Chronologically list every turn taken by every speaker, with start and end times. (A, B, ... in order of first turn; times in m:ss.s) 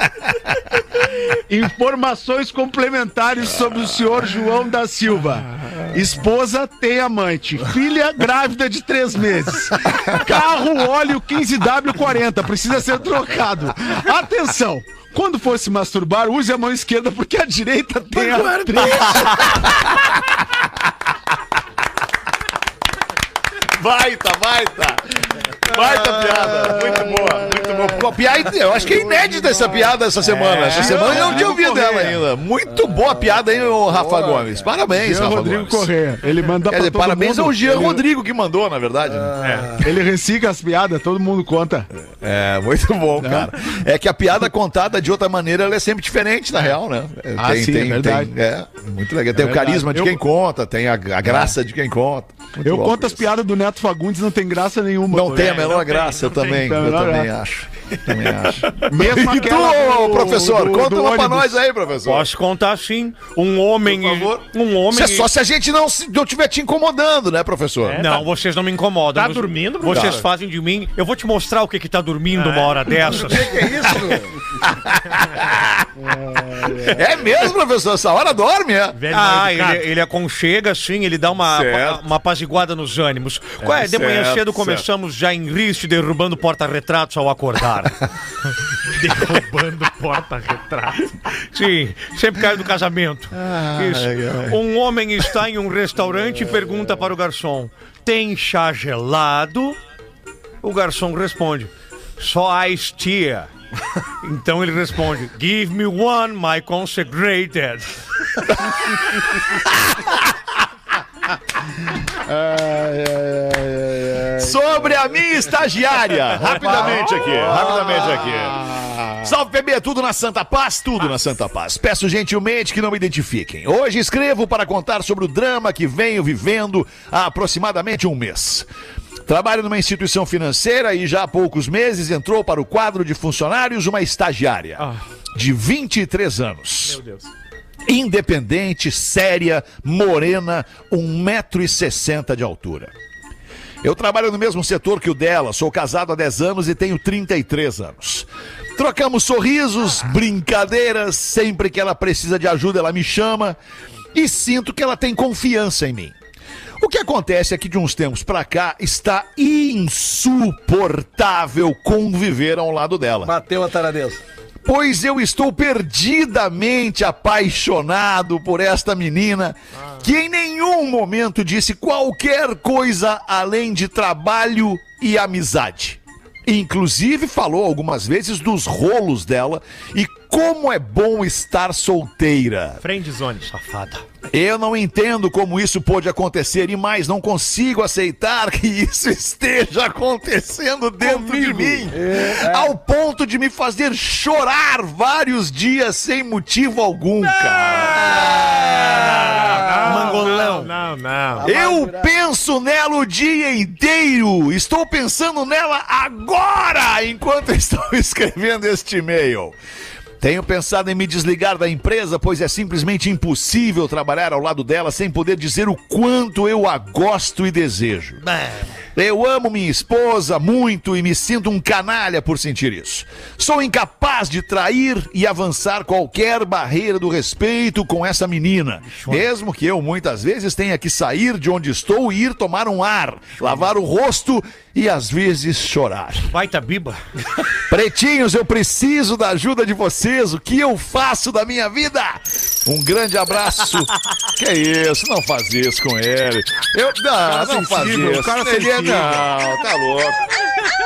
0:01.3-0:19.5 A
0:18.1-0:19.7 B
0:19.2-0:20.1 C
0:23.7-0:35.9 C
0:27.3-0:27.9 A
0:29.2-0:29.8 A
0:30.2-0:31.3 D
0:30.7-0:32.2 A
0:32.7-0:34.7 B
0:34.9-0:38.0 A
0:36.7-0:39.4 C
0:39.1-0:39.9 B
0:39.4-0:39.8 D
0:39.8-0:41.9 A
0:42.2-0:53.2 C
0:43.2-0:43.5 A
0:47.4-0:48.3 A
0:49.4-0:50.2 A
0:51.3-0:51.5 A
0:52.6-0:55.8 A
0:55.1-1:02.3 C
0:55.3-0:56.6 D
0:56.5-0:57.3 A
0:58.8-1:01.6 A
1:02.0-1:05.3 E
1:03.8-1:08.0 C
1:07.9-1:08.3 D
1:08.0-1:13.6 E
1:09.2-1:10.2 D
1:09.9-1:10.2 C
1:12.4-1:13.4 D
1:13.0-1:14.4 B
1:14.6-1:19.0 C
1:16.1-1:17.0 A
1:18.9-1:19.9 D
1:19.1-1:28.0 E
1:21.5-1:22.0 C
1:23.6-1:24.8 C
1:28.8-1:31.1 D
1:31.5-1:39.8 E
1:33.3-1:34.6 C
1:40.6-1:43.5 E
1:44.2-1:48.0 E
1:49.7-1:50.2 C
1:52.2-1:54.7 A
1:54.4-2:08.7 C
1:56.5-1:58.2 B
1:56.6-1:59.2 A
2:09.3-2:17.0 C
2:16.8-2:17.3 D
2:17.9-2:22.9 C
2:23.8-2:33.6 C
2:34.1-2:36.2 C
2:36.8-2:43.3 C
2:43.2-2:44.2 B
2:44.6-3:02.8 C
3:02.8-3:03.5 D
3:03.4-3:04.0 E
3:04.3-3:18.5 C
3:11.0-3:12.7 B
3:17.7-3:21.5 D
3:18.1-3:19.7 B
3:18.9-3:20.7 E
3:21.4-3:22.1 B
3:21.4-3:29.6 C
3:30.2-3:38.2 C
3:38.2-3:38.7 E
3:39.0-3:56.3 C
3:48.9-3:49.3 E
3:56.3-3:57.0 E
3:57.7-4:10.3 C
4:07.2-4:09.3 A